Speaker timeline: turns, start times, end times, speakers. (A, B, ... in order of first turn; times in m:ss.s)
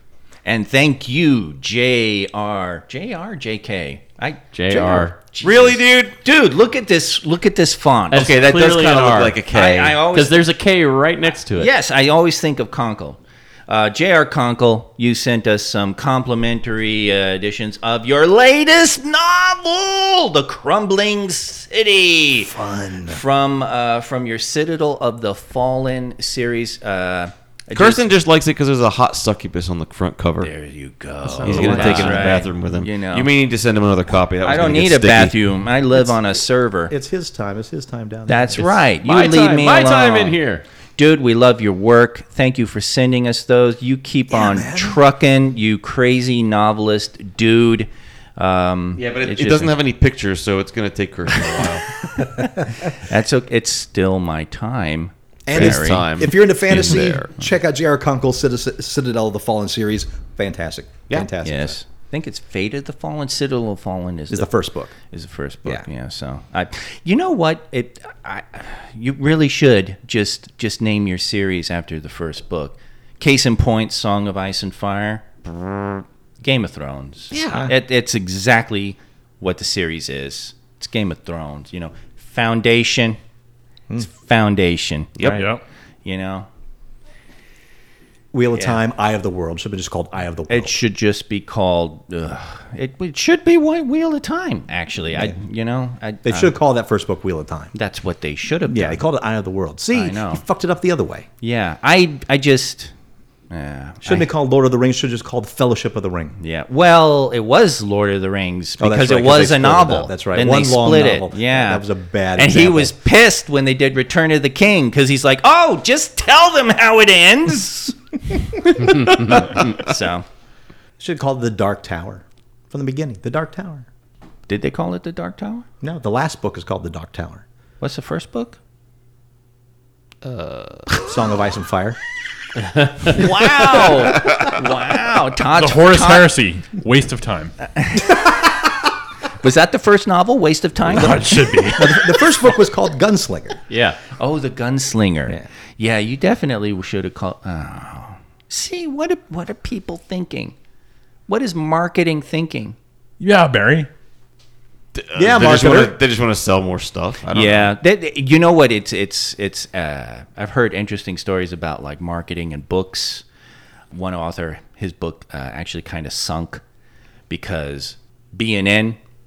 0:00.4-0:08.3 A
0:04.5-0:05.1 B
0:05.4-0:06.1 C
0:08.1-0:09.4 B
0:08.1-0:10.0 C
0:09.5-0:10.4 A
0:10.1-0:11.7 B
0:11.6-0:22.5 A
0:22.4-0:23.2 D
0:23.1-0:28.0 A
0:27.7-0:30.5 C
0:30.4-0:33.3 A
0:31.2-0:32.4 D
0:31.4-0:35.3 C
0:34.4-0:36.9 A
0:36.9-0:38.7 D
0:38.3-0:40.4 A
0:39.0-0:40.6 B
0:41.0-0:49.7 A
0:44.3-0:45.0 D
0:49.0-0:51.9 C
0:51.5-0:56.1 A
0:55.4-1:01.8 D
0:55.5-0:57.3 C
1:01.4-1:04.5 A
1:04.3-1:04.9 D
1:05.1-1:15.2 A
1:15.6-1:16.0 C
1:16.4-1:23.2 A
1:17.3-1:17.7 C
1:24.0-1:25.4 A
1:25.3-1:25.6 E
1:26.0-1:26.5 A
1:28.3-1:30.8 D
1:30.5-1:36.5 A
1:36.2-1:37.7 D
1:37.7-1:39.0 A
1:38.6-1:41.2 D
1:39.9-1:40.4 A
1:41.4-1:42.9 A
1:43.5-1:44.3 A
1:44.0-1:46.3 D
1:46.4-1:51.8 A
1:48.8-1:52.9 D
1:52.4-2:00.2 A
2:01.0-2:03.8 D
2:04.5-2:05.6 A
2:05.8-2:07.4 D
2:07.8-2:08.6 A
2:10.2-2:10.8 C
2:11.0-2:12.0 D
2:13.0-2:16.3 A
2:15.5-2:17.5 E
2:17.7-2:18.4 A
2:19.4-2:21.4 A
2:20.9-2:23.6 D
2:20.9-2:22.3 E
2:23.7-2:24.0 B
2:24.1-2:30.5 A
2:31.3-2:32.8 A
2:33.2-2:33.9 E
2:34.9-2:37.7 C
2:35.2-2:36.0 D
2:37.3-2:43.2 A
2:43.9-2:46.6 A
2:47.3-2:49.0 A